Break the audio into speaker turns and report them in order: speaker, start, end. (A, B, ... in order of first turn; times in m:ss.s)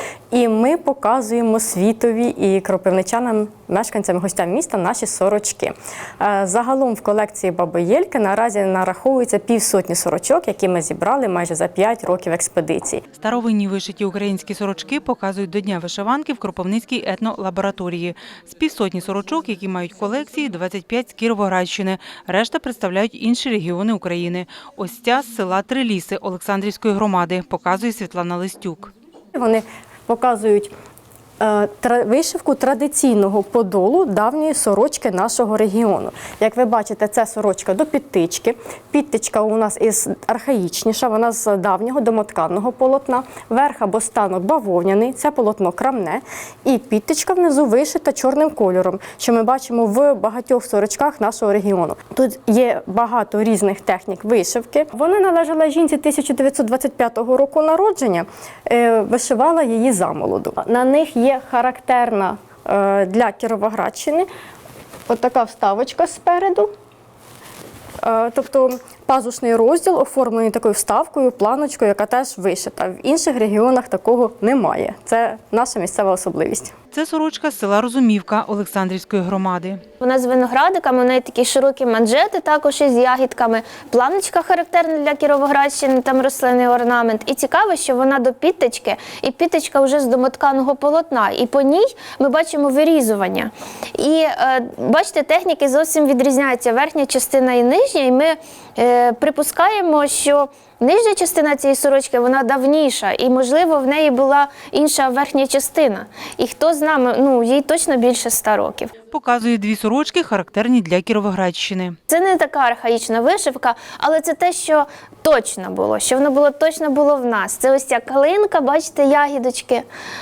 0:00.3-0:13.0 A
0:13.1-0:28.9 B
0:29.3-0:30.7 A
0:31.4-1:04.3 A
1:05.1-1:06.7 A
1:08.0-1:16.7 A
1:16.9-1:19.8 B
1:20.0-1:48.9 C
1:49.1-1:52.0 B
1:52.1-1:59.9 C